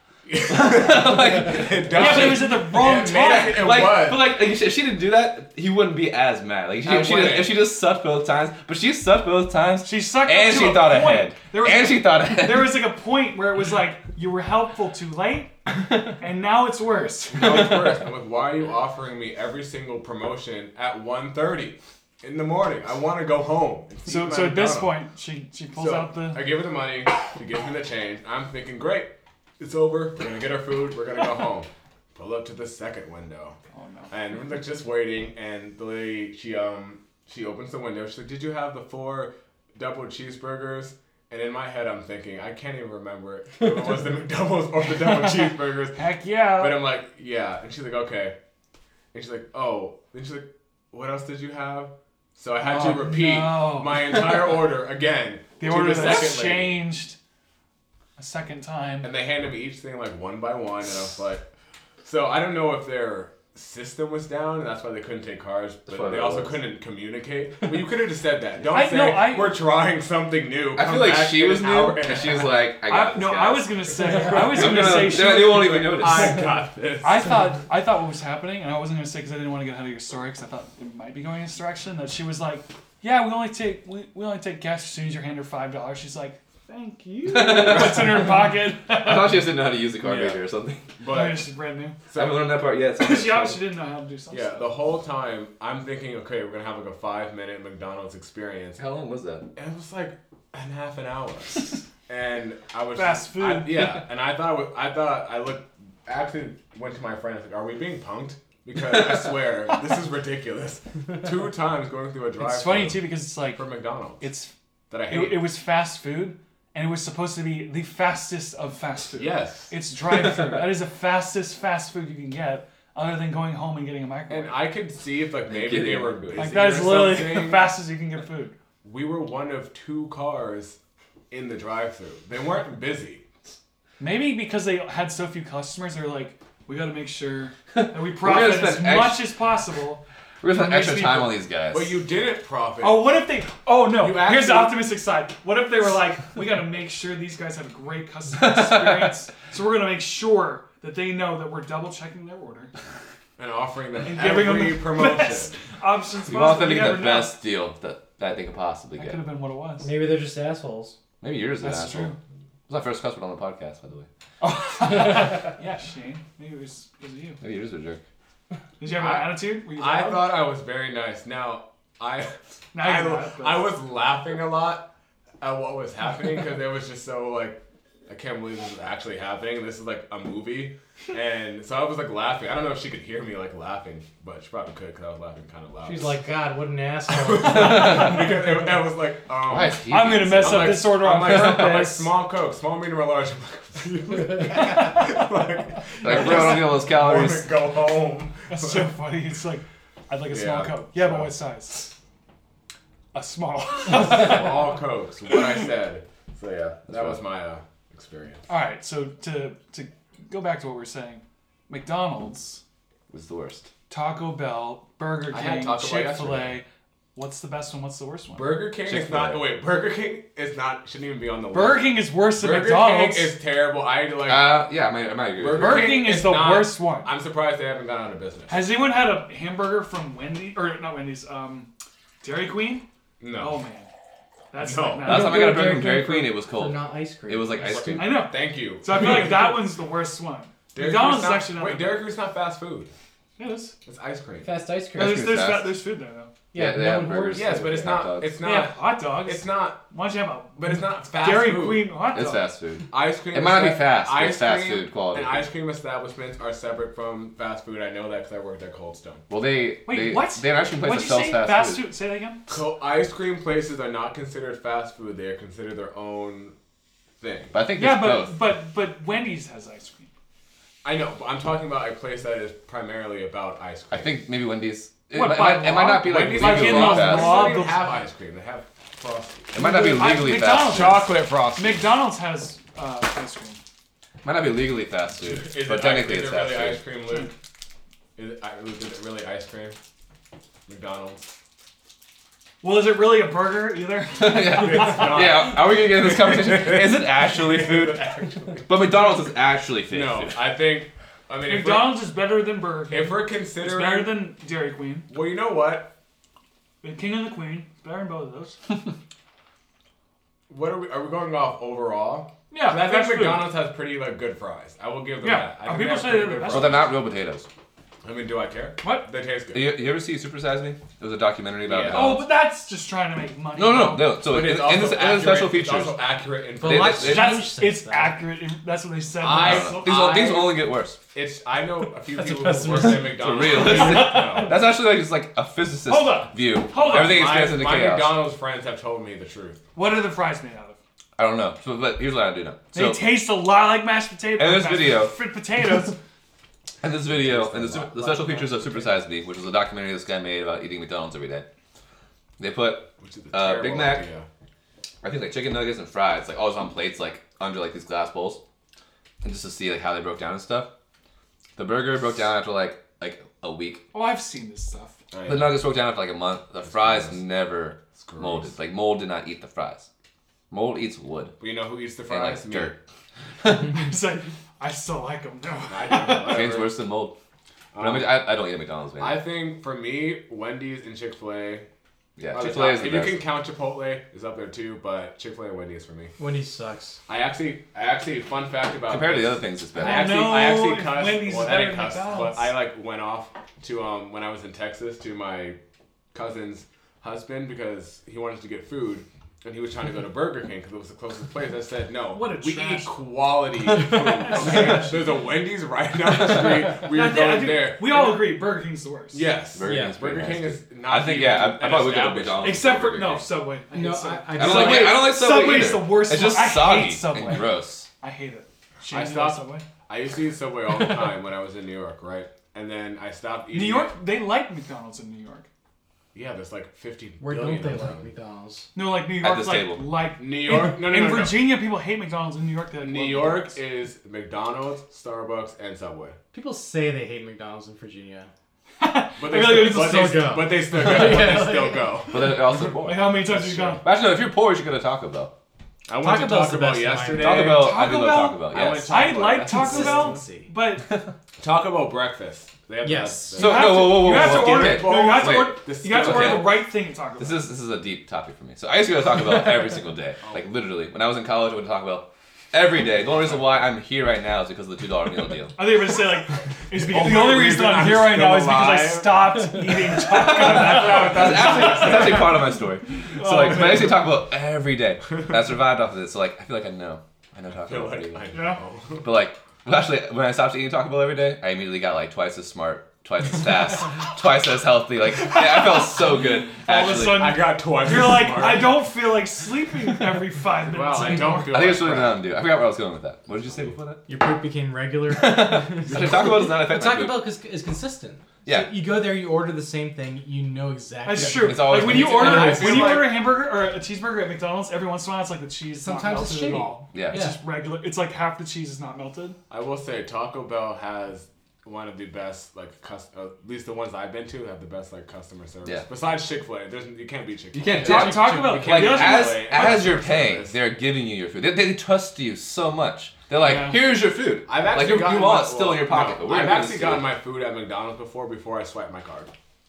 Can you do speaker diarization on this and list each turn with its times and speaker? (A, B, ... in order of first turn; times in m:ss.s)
0:00.3-0:04.3 A
0:00.4-0:12.8 B
0:01.9-0:03.8 C
0:06.9-0:07.5 A
0:09.8-0:17.8 C
0:17.3-0:25.0 A
0:24.1-0:26.5 C
0:25.7-0:33.6 A
0:33.7-0:34.1 C
0:34.1-0:48.4 A
0:45.1-0:46.8 C
0:49.1-0:56.8 A
0:52.6-0:54.3 C
0:55.6-0:57.2 C
0:58.2-0:59.1 C
0:59.0-1:01.5 A
1:02.0-1:12.6 A
1:05.9-1:06.6 B
1:08.7-1:09.6 C
1:10.8-1:16.4 B
1:12.8-1:29.5 C
1:14.1-1:15.2 A
1:15.9-1:17.3 A
1:27.3-1:30.9 B
1:30.0-1:30.4 A
1:31.0-1:31.5 A
1:31.0-1:32.0 C
1:32.1-1:32.5 A
1:32.2-1:33.6 B
1:33.0-1:34.7 C
1:34.3-1:38.8 A
1:38.8-1:39.5 B
1:39.6-1:54.3 A
1:43.0-1:43.9 C
1:52.4-1:53.6 C
1:54.2-1:54.5 C
1:54.9-1:55.4 A
1:55.1-2:04.7 C
1:59.2-1:59.7 A
2:00.1-2:00.6 B
2:04.3-2:07.7 A
2:05.5-2:06.8 B
2:06.4-2:08.6 C
2:08.8-2:10.8 A
2:11.3-2:13.2 A
2:14.0-2:21.3 C
2:17.7-2:19.3 B
2:20.4-2:22.0 B
2:21.7-2:23.1 A
2:22.8-2:32.7 C
2:23.9-2:24.8 A
2:28.4-2:29.1 B
2:33.4-2:35.6 A
2:34.0-2:37.4 C
2:36.3-2:39.2 B
2:39.0-2:39.9 C
2:39.8-2:41.0 D
2:41.2-2:42.1 B
2:41.6-2:42.2 C
2:42.7-2:44.1 B
2:44.4-2:47.4 C
2:47.4-2:48.0 B
2:48.8-2:50.4 C
2:48.9-3:06.2 A
2:52.7-2:53.7 C
3:05.8-3:08.5 D
3:07.1-3:09.8 A
3:09.5-3:11.7 B
3:09.9-3:12.1 C
3:10.3-3:19.0 A
3:16.0-3:17.5 B
3:18.5-3:21.9 C
3:20.3-3:21.3 A
3:23.1-3:24.6 C
3:23.9-3:28.5 A
3:26.8-3:27.2 B
3:28.5-3:32.6 C
3:33.1-3:33.7 B
3:33.9-3:38.6 C
3:35.3-3:36.6 A
3:38.4-3:44.6 A
3:38.8-3:39.4 B
3:41.5-3:43.3 C
3:44.2-3:46.0 B
3:45.4-3:48.6 A
3:45.6-3:47.1 C
3:48.5-3:51.7 C
3:52.2-3:52.8 C
3:53.2-3:53.6 A
3:53.4-3:53.9 C
3:54.5-3:55.6 C
3:54.6-3:55.2 A
3:55.0-3:57.7 D
3:55.0-3:58.2 B
3:57.6-3:59.6 A
3:57.9-4:02.0 C
4:00.7-4:02.9 A
4:03.4-4:03.8 C
4:03.8-4:04.5 A
4:04.4-4:05.3 D
4:05.0-4:05.8 B
4:05.0-4:06.3 C
4:06.5-4:08.0 D
4:06.6-4:08.4 B
4:07.3-4:09.8 A
4:08.4-4:12.4 C
4:10.6-4:11.9 A
4:12.1-4:15.5 B
4:12.9-4:19.2 A
4:19.3-4:21.8 B
4:19.9-4:22.4 C
4:22.5-4:26.6 A
4:27.2-4:27.6 A
4:27.5-4:28.4 B
4:27.7-4:30.1 C
4:30.8-4:34.2 A
4:33.9-4:37.6 B
4:35.1-4:38.0 C
4:36.0-4:39.6 A
4:39.5-4:41.1 B
4:39.6-4:43.6 C
4:40.4-4:41.9 A
4:44.2-4:46.8 B
4:45.2-4:47.3 A
4:48.2-4:49.8 A
4:50.7-4:51.4 A
4:52.6-4:55.2 C
4:54.2-5:00.4 B
4:54.5-4:59.2 A
4:59.9-5:02.0 A
5:01.5-5:05.1 C
5:02.9-5:04.2 A
5:05.1-5:05.9 A
5:06.8-5:08.7 C
5:10.5-5:16.9 A
5:12.5-5:13.6 C
5:15.2-5:16.9 C
5:16.4-5:17.5 B
5:18.0-5:19.7 A
5:18.8-5:19.1 C
5:19.5-5:22.3 B
5:21.6-5:22.2 A
5:21.9-5:24.1 C
5:23.6-5:26.0 B
5:24.2-5:27.3 A
5:26.6-5:28.2 D
5:26.6-5:27.4 B
5:27.0-5:30.0 C
5:29.2-5:30.6 A
5:29.3-5:31.0 B
5:31.1-5:34.6 A
5:32.1-5:34.5 D
5:32.8-5:38.2 B
5:33.6-5:34.5 C
5:35.9-5:37.5 C
5:36.8-5:39.6 A
5:39.8-5:40.8 C
5:41.2-5:43.0 B
5:42.7-5:46.0 C
5:44.4-5:45.1 B
5:46.8-5:51.5 B
5:47.1-5:48.3 A
5:48.0-5:48.7 C
5:52.4-5:54.1 B
5:53.0-5:54.2 A
5:55.0-5:58.4 B
5:59.2-6:00.7 B
6:01.6-6:03.8 B
6:03.9-6:05.0 C
6:05.1-6:05.6 A
6:05.3-6:09.9 B
6:06.6-6:07.2 A
6:08.0-6:08.5 A
6:10.5-6:11.4 B
6:11.4-6:12.8 A
6:12.1-6:12.8 B
6:13.4-6:13.8 B
6:13.6-6:16.4 C
6:15.7-6:16.8 A
6:16.2-6:17.2 B
6:17.7-6:18.2 A
6:17.8-6:19.2 B
6:19.0-6:21.7 A
6:22.2-6:23.2 B
6:22.3-6:26.1 A
6:26.2-6:27.0 D
6:27.1-6:35.6 A
6:28.9-6:30.4 B
6:29.8-6:32.6 C
6:36.1-6:48.3 A
6:42.1-6:42.9 C
6:44.1-6:45.0 C
6:46.8-6:49.3 C
6:49.1-6:52.7 A
6:49.6-6:53.3 B
6:49.6-6:50.0 D
6:52.4-6:59.6 C
6:53.7-6:55.0 D
6:54.3-6:57.9 B
6:58.9-7:03.9 A
7:03.5-7:05.5 C
7:06.1-7:08.1 A
7:07.2-7:08.7 D
7:08.8-7:13.6 C
7:09.2-7:10.0 B
7:10.2-7:11.5 A
7:12.8-7:16.2 A
7:16.3-7:18.3 D
7:18.8-7:20.4 C
7:19.2-7:23.8 A
7:19.4-7:22.0 D
7:20.8-7:21.4 B
7:22.1-7:23.2 B
7:22.7-7:23.8 C
7:23.8-7:25.3 B
7:25.9-7:27.7 A
7:26.0-7:27.5 D
7:27.2-7:29.3 B
7:27.3-7:30.9 C
7:28.5-7:30.2 A
7:29.4-7:30.5 D
7:30.8-7:31.1 B
7:31.4-7:36.6 A
7:32.8-7:33.4 D
7:33.4-7:36.6 B
7:33.4-7:37.5 C
7:37.2-7:45.7 B
7:45.6-7:52.2 C
7:46.7-7:52.4 A
7:50.0-7:58.2 B
7:53.1-7:54.0 C
7:57.7-7:59.1 A
7:58.3-7:58.6 C
7:59.0-8:07.4 B
8:06.6-8:11.6 C
8:06.9-8:08.8 A
8:10.6-8:12.2 A
8:11.0-8:14.1 B
8:14.1-8:22.8 D
8:15.1-8:17.3 B
8:15.9-8:16.5 A
8:18.4-8:19.0 B
8:21.0-8:29.4 C
8:21.1-8:23.0 B
8:21.9-8:23.2 A
8:25.8-8:27.4 D
8:26.9-8:27.2 B
8:29.5-8:40.6 A
8:37.5-8:47.2 B
8:37.8-8:39.8 C
8:43.4-8:43.8 C
8:44.5-8:49.3 A